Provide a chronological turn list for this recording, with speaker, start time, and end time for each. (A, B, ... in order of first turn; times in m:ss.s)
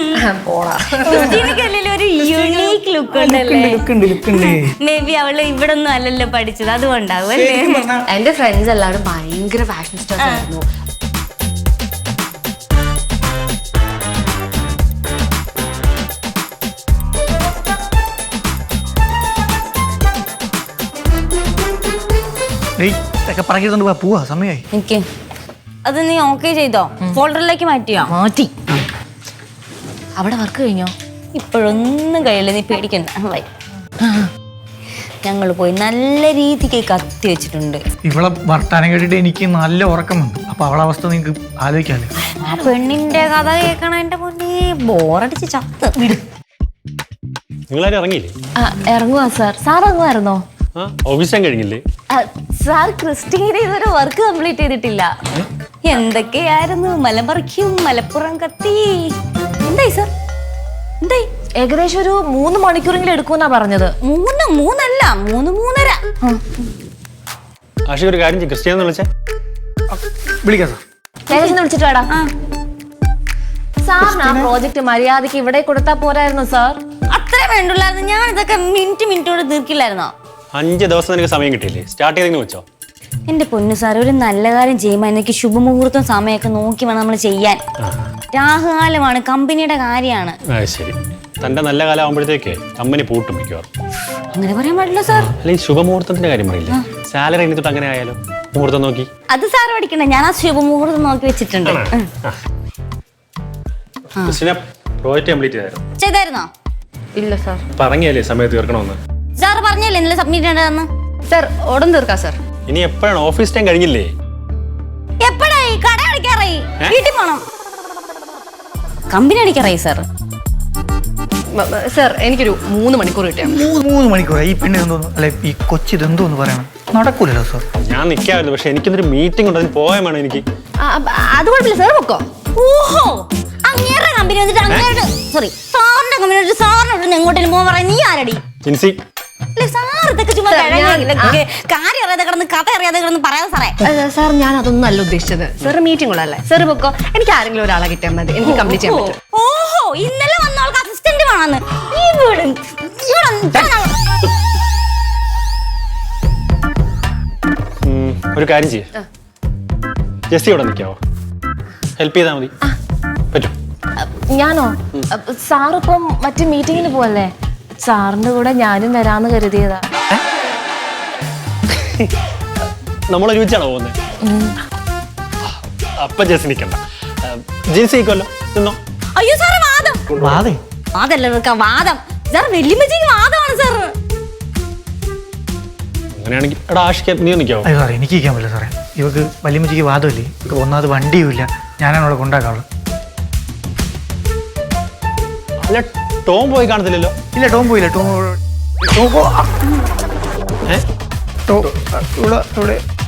0:00.2-0:01.7 A
0:01.1-0:01.6 B
0:01.1-0:07.9 C
0:02.1-0:04.7 B
0:07.2-0:08.1 B
0:08.0-0:10.6 A
0:22.8-0:24.6 B
0:24.7-0:25.0 C
0:25.8-0:28.1 C
0:28.0-0:28.5 D
0:30.2-0:30.9 D
0:31.4-0:33.4 C
0:35.2-0:37.8 C
0:38.0-0:42.1 B
0:42.5-0:45.9 C
0:46.0-0:46.2 D
0:47.7-0:48.4 E
0:48.6-0:50.4 D
0:50.8-0:51.8 E
0:52.1-0:55.1 D
0:55.8-0:59.1 C
0:59.7-1:00.0 D
1:01.6-1:03.9 D
1:04.0-1:06.0 C
1:07.9-1:09.1 E
1:09.9-1:10.8 B
1:11.3-1:12.1 D
1:13.8-1:16.8 D
1:14.0-1:14.5 B
1:17.1-1:20.1 C
1:20.6-1:22.6 E
1:23.3-1:27.6 C
1:28.3-1:30.4 C
1:30.5-1:33.7 E
1:34.3-1:35.3 C
1:35.1-1:39.1 E
1:39.3-1:42.1 C
1:41.6-1:42.4 E
1:44.2-1:45.8 E
1:46.0-1:46.5 C
1:47.2-1:47.6 A
1:47.8-1:49.0 E
1:49.4-1:50.9 C
1:51.3-1:52.4 A
1:52.7-1:54.1 E
1:55.2-1:57.4 C
1:59.1-2:00.0 C
2:01.5-2:03.7 A
2:03.5-2:07.6 B
2:07.8-2:10.4 E
2:10.8-2:12.3 A
2:12.6-2:18.4 C
2:14.7-2:15.0 E
2:18.6-2:19.0 E
2:19.6-2:23.8 C
2:20.4-2:21.4 A
2:23.8-2:29.2 A
2:29.3-2:33.9 C
2:37.9-2:38.9 E
2:40.3-2:41.0 E
2:42.0-2:42.5 E
2:44.0-2:47.3 D
2:47.8-2:49.9 D
2:53.1-2:54.0 E
2:54.2-2:54.5 D
2:55.4-2:58.8 E
2:59.2-3:00.1 C
3:00.2-3:00.6 B
3:00.9-3:03.9 C
3:06.2-3:07.7 E
3:07.6-3:12.6 B
3:15.6-3:17.1 E
3:17.4-3:19.5 B
3:21.5-3:22.8 B